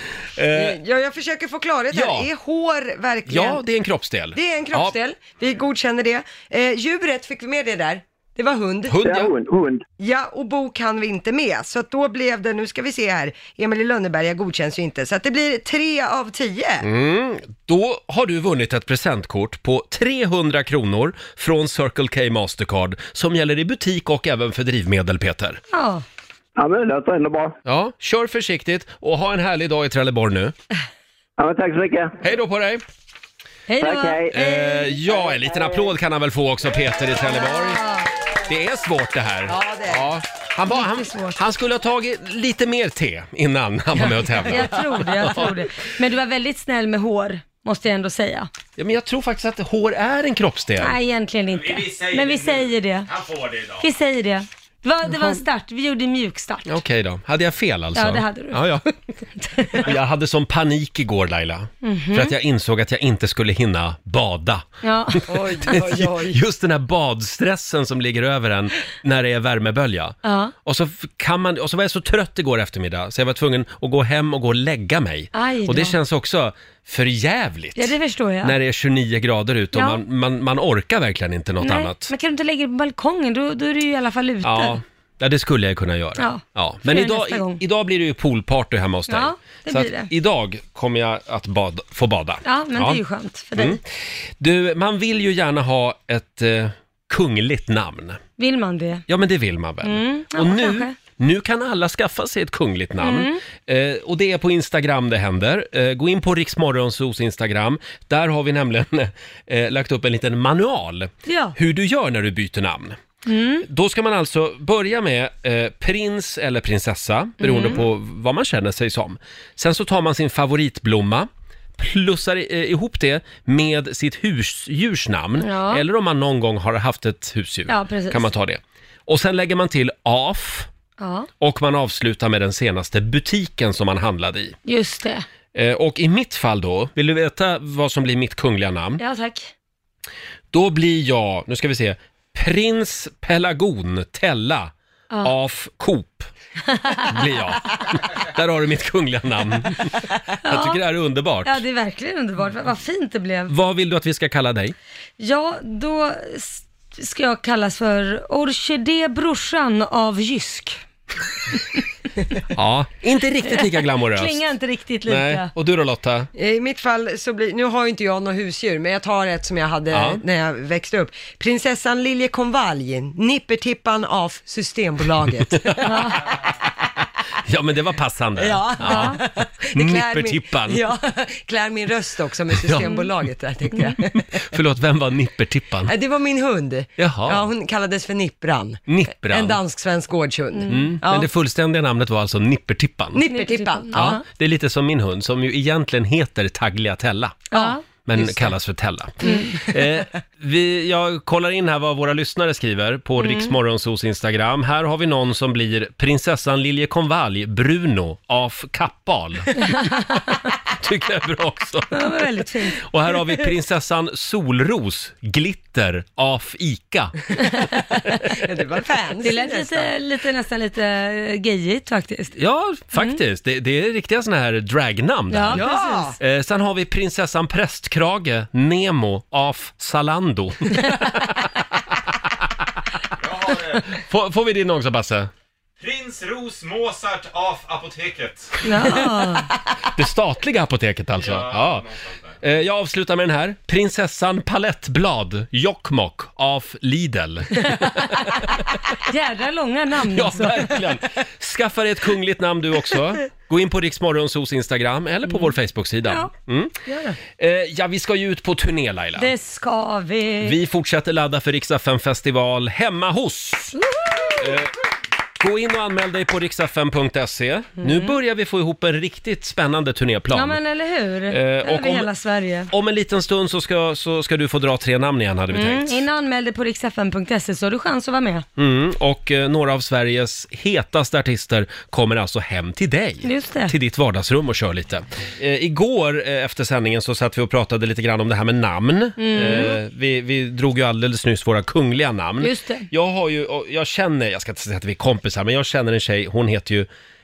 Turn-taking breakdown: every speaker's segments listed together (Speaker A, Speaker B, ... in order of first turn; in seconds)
Speaker A: 0.4-0.8, 1.9-2.3, 3.3-4.9, 8.9-9.3, 16.8-25.6, 27.6-30.5, 32.2-32.8, 34.3-37.8, 38.5-45.5, 48.8-51.0, 56.6-58.8, 59.8-64.7, 65.3-82.1, 84.4-93.0, 94.4-98.2, 99.1-113.0, 113.6-130.7, 131.4-134.6, 135.5-139.0, 140.5-144.7, 145.2-146.3, 147.0-151.6, 153.5-154.8, 162.5-164.4, 165.1-166.3, 169.9-170.2, 175.6-175.8, 177.4-179.2, 179.7-180.8, 182.5-183.0, 184.1-185.9, 187.0-187.5, 188.9-189.6, 190.7-193.2, 193.9-197.5, 198.0-210.0, 210.7-212.2, 212.8-217.2, 222.4-225.7, 226.2-231.4, 233.9-235.3, 239.9-241.9, 242.4-248.7, 250.1-256.8, 257.4-259.3, 260.4-263.8, 264.4-264.7, 265.4-270.6, 271.3-272.1, 272.7-276.0, 278.6-296.9
Speaker B: 0.5-3.6, 4.3-9.0, 10.0-16.9, 39.5-40.1, 65.3-66.4, 166.3-176.2, 178.4-184.4, 185.9-191.3, 193.1-194.2, 197.5-198.5, 199.2-199.5, 218.2-219.9, 225.5-226.2
Speaker C: 9.0-9.8, 26.6-27.6, 31.4-32.2, 33.8-34.5, 35.1-35.9
Speaker D: 25.7-26.1, 33.7-35.0, 37.3-38.1, 40.7-41.4, 44.5-48.5, 50.8-53.1, 53.8-56.7, 58.0-59.9, 61.8-62.4, 64.8-65.2, 70.2-70.5, 75.3-76.0, 77.8-78.6, 79.7-80.0, 81.6-84.8, 86.2-87.6, 89.1-90.1, 92.5-93.8, 98.4-99.1, 99.8-100.9, 103.0-103.4, 111.2-111.6, 113.2-113.7, 117.4-117.8, 125.4-125.8, 127.7-128.3, 131.0-131.3, 134.7-135.2, 139.0-139.5, 146.7-147.1, 150.4-150.8, 151.4-153.5, 155.2-160.8, 163.5-165.5, 175.8-176.2, 178.8-179.2, 193.3-194.2, 197.5-197.8, 199.2-199.6, 203.2-203.5, 209.7-210.2, 211.9-212.8, 219.2-222.4, 225.3-226.2, 238.6-239.5, 248.9-250.8, 256.1-256.3, 256.9-257.2, 259.2-260.6, 267.8-268.1, 270.3-272.7, 275.5-278.4, 283.2-283.7, 289.2-289.8, 292.4-292.9
Speaker E: 51.5-53.9, 233.2-233.9, 235.8-238.6, 241.2-242.3